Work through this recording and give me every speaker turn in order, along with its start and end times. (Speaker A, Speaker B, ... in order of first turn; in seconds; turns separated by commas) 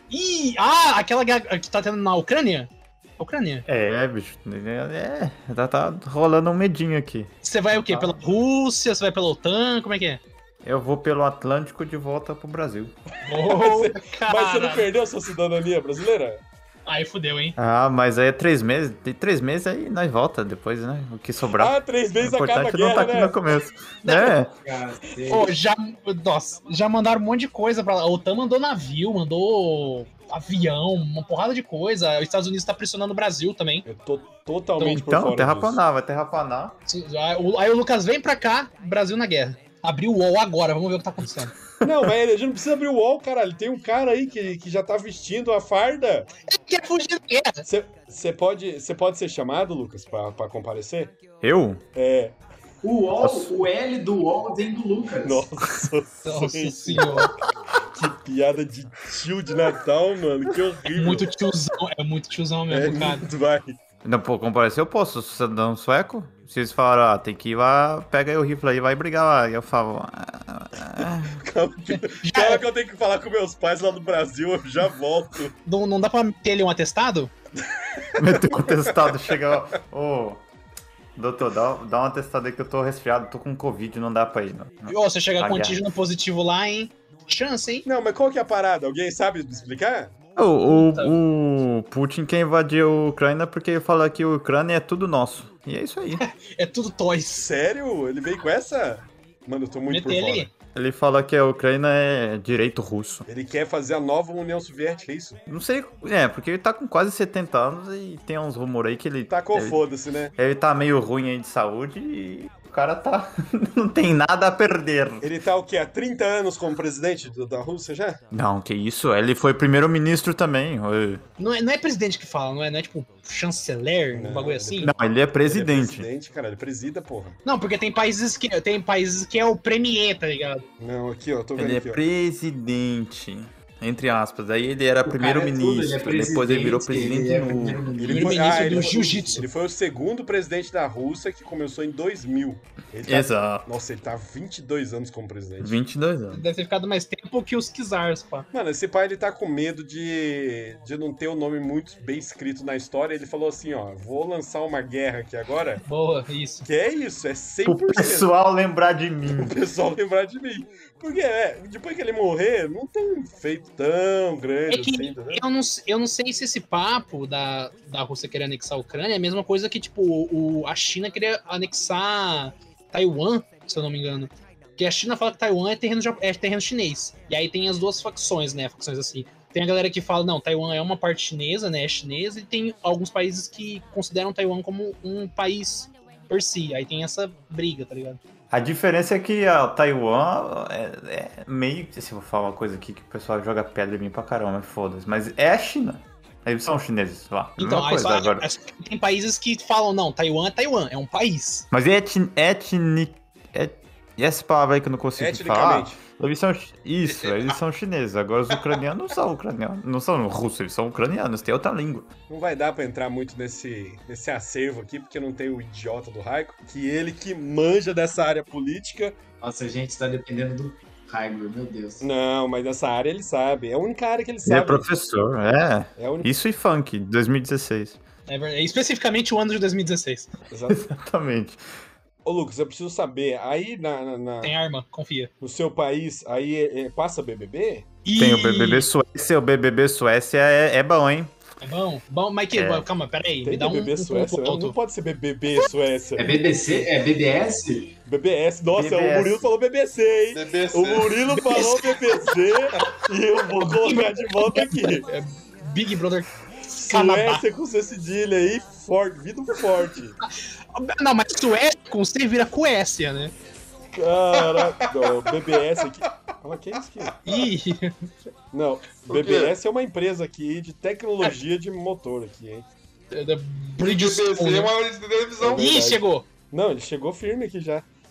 Speaker A: 0.1-3.6, Speaker B: 3.6-8.2, Speaker A: 7.4-10.2, Speaker B: 10.6-12.9, Speaker A: 13.2-14.9, Speaker C: 13.3-16.4, Speaker A: 16.9-17.6, Speaker B: 17.6-24.5, Speaker C: 21.6-23.4, Speaker A: 24.0-24.4, Speaker D: 24.6-25.5, Speaker A: 25.2-33.9, Speaker C: 33.9-35.8, Speaker B: 34.8-36.7, Speaker A: 36.9-41.5, Speaker C: 41.8-46.3, Speaker B: 41.8-42.1, Speaker A: 46.5-47.6, Speaker C: 47.7-51.1, Speaker B: 51.4-51.8, Speaker C: 51.9-52.3, Speaker D: 52.8-55.5, Speaker B: 53.2-53.5, Speaker C: 55.2-57.3, Speaker A: 56.2-57.3, Speaker C: 57.9-61.3, Speaker A: 60.9-63.2, Speaker C: 62.7-63.8, Speaker B: 64.0-71.4, Speaker C: 71.3-75.5, Speaker A: 71.9-72.6, Speaker A: 75.6-77.3, Speaker C: 77.9-79.5, Speaker B: 78.1-80.4, Speaker B: 81.2-85.8, Speaker A: 84.9-87.8, Speaker C: 87.8-90.1, Speaker B: 90.3-96.2, Speaker A: 90.7-91.2, Speaker A: 96.2-97.5, Speaker C: 97.3-100.5, Speaker A: 99.9-100.5, Speaker B: 100.7-103.3, Speaker C: 103.3-105.4, Speaker B: 105.5-109.8, Speaker C: 109.3-110.3, Speaker B: 110.3-115.3, Speaker C: 115.2-118.2, Speaker B: 118.3-121.2, Speaker A: 121.4-124.9, Speaker C: 124.1-124.9, Speaker B: 124.8-126.1, Speaker C: 125.5-127.4, Speaker A: 127.4-130.6, Speaker C: 130.8-132.0, Speaker B: 131.6-137.9, Speaker D: 135.0-139.4, Speaker C: 138.0-145.8, Speaker A: 138.0-139.4, Speaker B: 143.1-143.7, Speaker B: 145.6-146.4, Speaker A: 146.3-148.5, Speaker C: 148.5-155.8, Speaker A: 155.8-156.7, Speaker C: 156.6-158.3, Speaker B: 157.6-159.6, Speaker C: 159.3-165.4, Speaker A: 164.7-188.2, Speaker B: 188.5-198.5, Speaker A: 197.6-201.7, Speaker B: 201.7-212.1, Speaker C: 205.2-206.0, Speaker E: 207.1-207.6, Speaker C: 212.3-219.2, Speaker D: 219.4-222.1, Speaker C: 222.0-224.8, Speaker B: 224.4-228.0, Speaker C: 226.0-226.3, Speaker A: 228.3-230.3, Speaker C: 230.5-230.8, Speaker B: 230.7-231.6, Speaker C: 232.2-234.5, Speaker A: 234.4-235.3, Speaker C: 235.4-237.8, Speaker A: 238.0-238.9, Speaker B: 238.2-241.3, Speaker A: 241.6-244.8, Speaker B: 242.5-242.9, Speaker C: 243.4-246.3, Speaker D: 246.2-247.9, Speaker C: 248.0-255.0, Speaker B: 248.7-249.4, Speaker E: 250.3-251.2, Speaker A: 251.3-252.2, Speaker A: 253.6-257.4, Speaker C: 256.7-260.2, Speaker A: 260.7-263.3, Speaker C: 263.9-267.2, Speaker E: 264.3-265.5, Speaker A: 267.2-268.0, Speaker C: 268.5-272.6, Speaker E: 269.1-269.5, Speaker A: 273.1-274.7, Speaker E: 273.8-275.7, Speaker C: 275.4-277.8, Speaker A: 275.5-276.3